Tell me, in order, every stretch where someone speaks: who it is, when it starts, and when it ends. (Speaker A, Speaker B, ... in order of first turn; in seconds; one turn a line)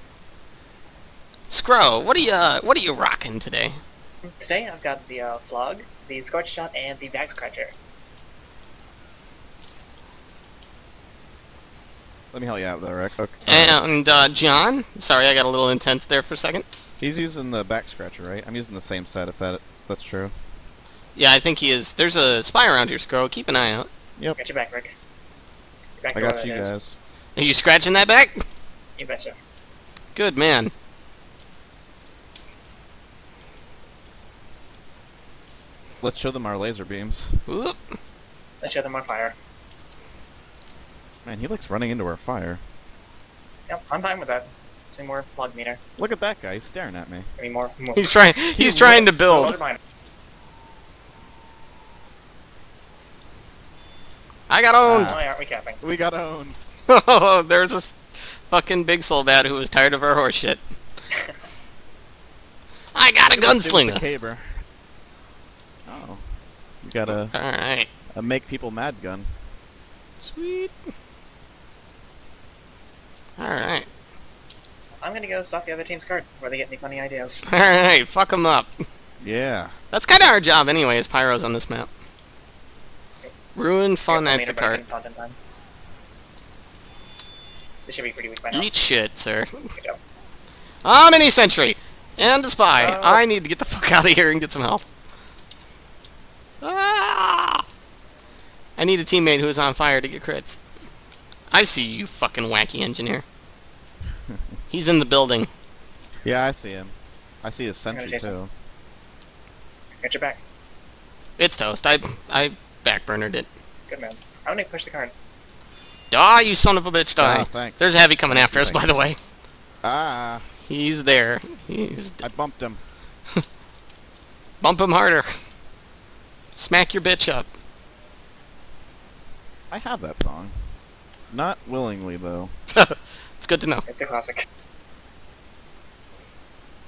Speaker A: 1.5-3.8
Speaker B: 4.2-7.7
Speaker C: 12.3-13.8
Speaker A: 13.5-16.6
Speaker C: 17.0-20.3
Speaker A: 21.2-23.9
Speaker B: 24.4-24.9
Speaker B: 26.0-26.7
Speaker C: 26.1-27.0
Speaker A: 27.4-28.4
Speaker B: 29.0-29.4
Speaker A: 30.1-30.7
Speaker C: 36.0-37.4
Speaker A: 37.5-37.8
Speaker B: 38.6-39.4
Speaker C: 41.2-42.6
Speaker B: 43.7-45.8
Speaker C: 46.0-47.3
Speaker B: 47.4-48.1
Speaker A: 48.0-49.6
Speaker C: 48.5-49.5
Speaker B: 49.3-49.8
Speaker A: 54.5-55.2
Speaker C: 54.8-55.2
Speaker B: 55.1-55.8
Speaker C: 55.8-56.6
Speaker A: 56.9-60.6
Speaker A: 63.0-64.0
Speaker C: 63.3-64.5
Speaker C: 65.9-66.2
Speaker C: 66.8-67.3
Speaker A: 67.1-67.9
Speaker C: 68.2-69.3
Speaker A: 70.2-70.7
Speaker A: 73.4-73.9
Speaker B: 75.0-77.5
Speaker A: 77.5-78.7
Speaker C: 79.2-79.7
Speaker A: 79.9-81.9
Speaker A: 83.5-84.8
Speaker B: 84.1-85.4
Speaker B: 87.8-88.7
Speaker A: 88.5-89.5
Speaker A: 90.8-94.8
Speaker B: 92.8-93.2
Speaker A: 96.6-97.6
Speaker A: 98.8-100.6
Speaker A: 101.5-103.2
Speaker A: 104.7-105.5
Speaker C: 106.2-108.5
Speaker B: 107.9-108.4
Speaker B: 110.0-110.4
Speaker A: 111.4-113.5
Speaker B: 113.9-115.1
Speaker A: 116.1-119.2
Speaker C: 117.2-118.9
Speaker C: 119.8-120.5
Speaker A: 120.6-122.3
Speaker C: 122.2-122.8
Speaker A: 124.6-125.3
Speaker A: 126.6-127.5
Speaker C: 129.7-130.6
Speaker C: 131.3-132.5
Speaker A: 132.7-133.8
Speaker B: 133.9-134.4